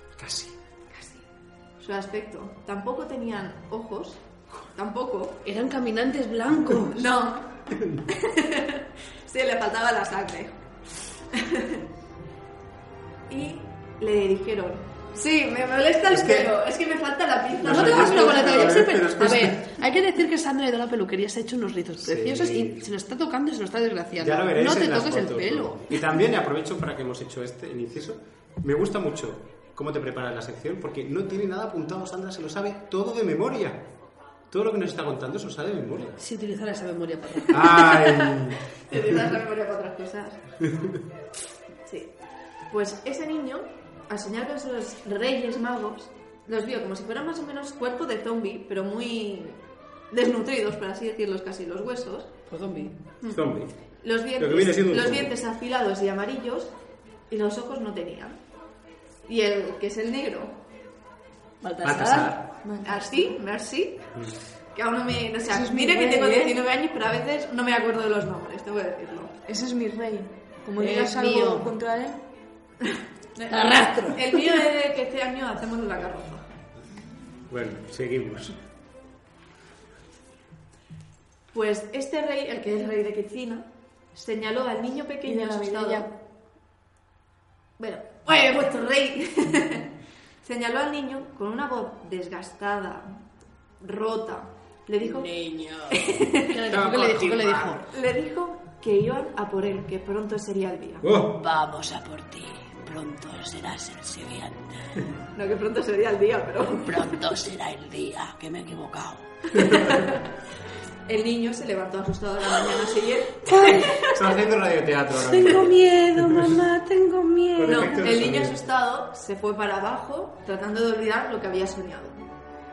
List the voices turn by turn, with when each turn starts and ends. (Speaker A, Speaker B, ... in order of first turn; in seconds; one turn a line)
Speaker A: 0.2-0.5
Speaker B: 0.9-1.2
Speaker B: 1.8-5.4
Speaker C: 5.5-7.0
Speaker B: 6.9-10.6
Speaker A: 7.7-8.0
Speaker B: 11.3-11.8
Speaker B: 13.3-18.8
Speaker A: 16.1-16.5
Speaker A: 17.6-19.7
Speaker C: 17.7-26.0
Speaker A: 22.0-22.9
Speaker A: 24.2-33.9
Speaker A: 34.5-36.2
Speaker C: 36.2-37.6
Speaker A: 37.5-39.0
Speaker B: 37.6-40.4
Speaker B: 41.9-42.1
Speaker B: 42.7-49.6
Speaker B: 50.1-52.3
Speaker C: 52.5-53.0
Speaker A: 53.2-53.7
Speaker B: 54.0-56.7
Speaker A: 54.4-55.3
Speaker B: 57.3-58.4
Speaker B: 59.3-60.6
Speaker C: 61.6-62.4
Speaker A: 61.8-62.5
Speaker D: 62.6-63.0
Speaker B: 62.8-64.1
Speaker B: 64.7-69.3
Speaker D: 65.5-66.6
Speaker D: 69.5-72.2
Speaker C: 70.8-71.7
Speaker B: 72.9-76.5
Speaker C: 73.5-74.2
Speaker A: 77.5-78.6
Speaker B: 81.5-86.1
Speaker D: 85.2-86.1
Speaker B: 87.8-89.9
Speaker B: 90.4-93.1
Speaker B: 93.8-95.3
Speaker C: 95.0-97.8
Speaker B: 95.9-96.6
Speaker A: 96.7-97.8
Speaker B: 97.9-101.1
Speaker A: 101.0-101.4
Speaker C: 101.4-105.0
Speaker B: 105.3-107.2
Speaker C: 106.8-109.2
Speaker B: 109.5-110.3
Speaker B: 111.1-114.4
Speaker C: 113.5-113.9
Speaker A: 114.0-116.6
Speaker C: 115.2-118.0
Speaker A: 117.5-118.6
Speaker B: 117.7-122.3